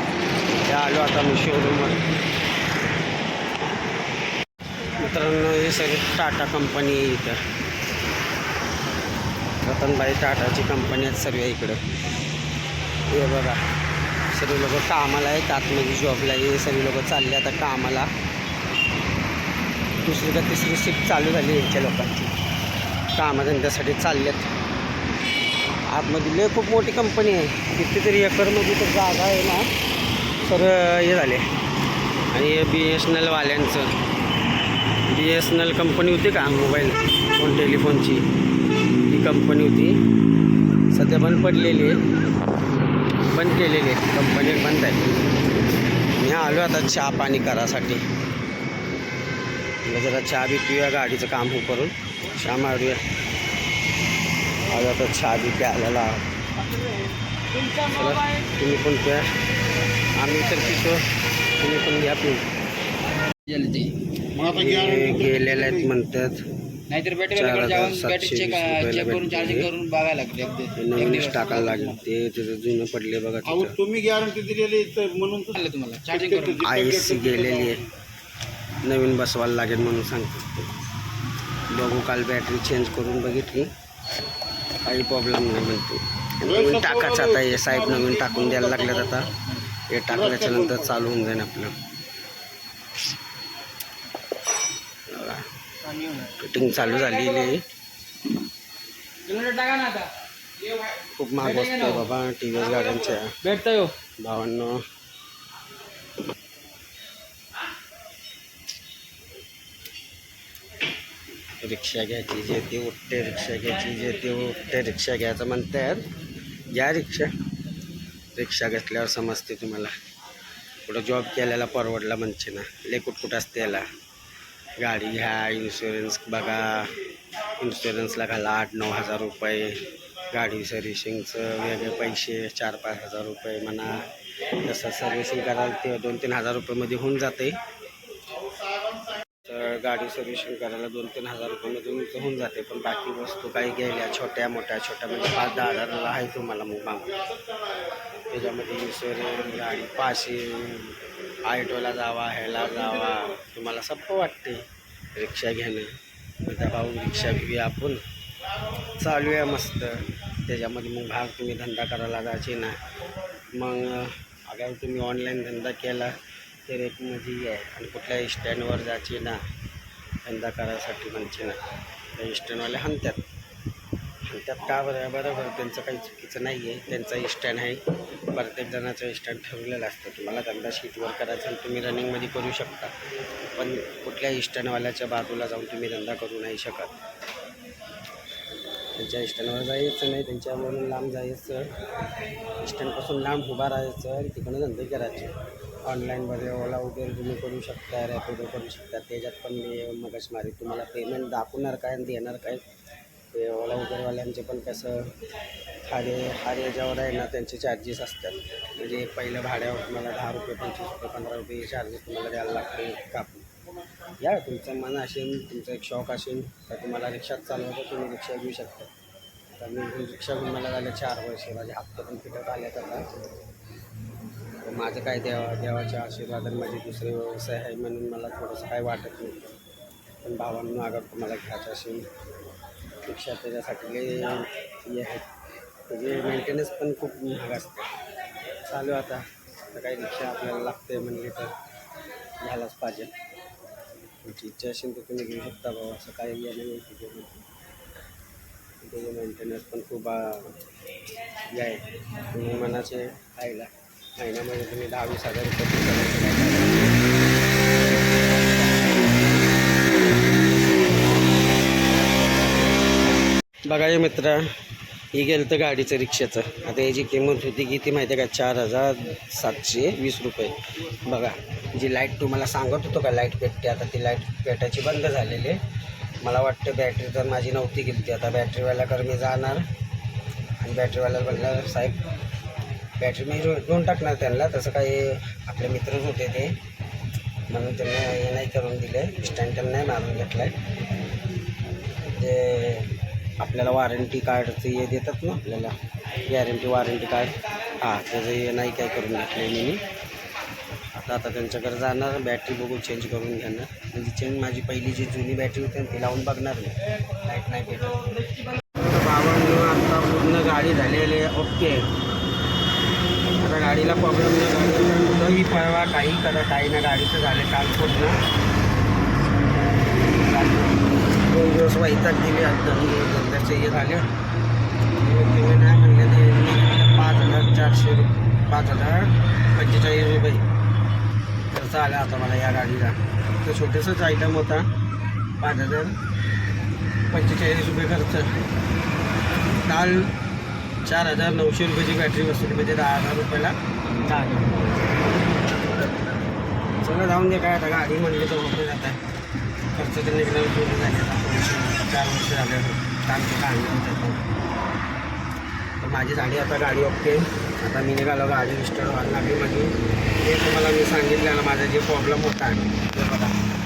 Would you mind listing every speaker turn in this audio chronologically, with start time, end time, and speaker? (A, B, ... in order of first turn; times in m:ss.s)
0:00.6-0:02.1 A
0:04.8-0:07.4 A
0:09.6-0:11.8 A
0:13.1-0:13.6 A
0:14.3-0:18.1 A
0:20.0-0:22.3 A
0:23.2-0:24.5 A
0:25.9-0:29.7 A
0:30.4-0:31.5 A
0:32.3-0:34.0 A
0:35.1-0:38.3 A
0:39.1-0:40.0 A
0:40.9-0:42.0 A
0:43.2-0:45.1 A
0:46.2-0:48.0 A
0:49.8-0:53.0 A
0:54.7-0:56.3 A
0:57.5-0:57.9 B
0:57.8-0:59.3 A
1:00.2-1:01.1 A
1:01.6-1:02.5 A
1:03.5-1:04.0 B
1:04.4-1:05.4 C
1:04.5-1:06.4 A
1:06.9-1:12.0 B
1:07.3-1:09.7 A
1:10.8-1:13.8 A
1:13.7-1:15.6 C
1:15.5-1:16.6 B
1:16.3-1:17.7 C
1:16.6-1:17.8 A
1:18.8-1:20.6 A
1:21.7-1:23.7 A
1:24.8-1:31.8 A
1:35.1-1:35.5 A
1:36.1-1:37.6 A
1:39.2-1:40.1 B
1:41.0-1:43.7 A
1:41.4-1:42.1 B
1:43.5-1:44.0 B
1:44.2-1:44.8 A
1:51.6-1:56.1 A
1:56.7-1:57.4 A
1:58.3-1:59.9 A
2:00.8-2:03.9 A
2:04.8-2:07.0 A
2:07.6-2:14.0 A
2:14.6-2:17.6 A
2:19.4-2:27.2 A
2:28.3-2:34.6 A
2:35.2-2:38.0 A
2:39.0-2:42.8 A
2:43.5-2:46.2 A
2:46.7-2:49.4 A
2:50.2-2:51.6 A
2:52.2-2:53.2 A
2:54.2-3:02.9 A
3:03.6-3:07.0 A
3:09.0-3:11.8 A
3:12.6-3:22.6 A
3:23.3-3:25.1 A
3:25.8-3:33.5 A
3:34.2-3:38.9 A
3:39.6-3:43.1 A
3:44.6-3:49.6 A
3:50.2-3:52.1 A
3:53.0-3:55.3 A
3:55.9-3:57.9 A
3:58.7-4:01.5 A
4:02.4-4:03.1 A
4:04.2-4:07.4 A
4:08.8-4:10.6 A
4:11.5-4:17.1 A
4:17.9-4:19.4 A
4:19.9-4:20.9 A
4:23.7-4:24.5 A
4:25.1-4:35.6 A
4:36.2-4:39.7 A
4:40.6-4:42.0 A
4:43.0-4:46.6 A
4:47.5-4:50.6 A
4:52.0-4:59.8 A
5:01.0-5:11.9 A
5:13.3-5:18.2 A
5:20.0-5:24.1 A
5:25.0-5:30.5 A
5:31.5-5:34.7 A
5:35.4-5:36.0 A
5:37.1-5:38.4 A
5:39.6-5:40.1 A
5:40.8-5:45.0 A
5:46.8-5:49.0 A
5:49.7-5:54.2 A
5:55.8-6:03.4 A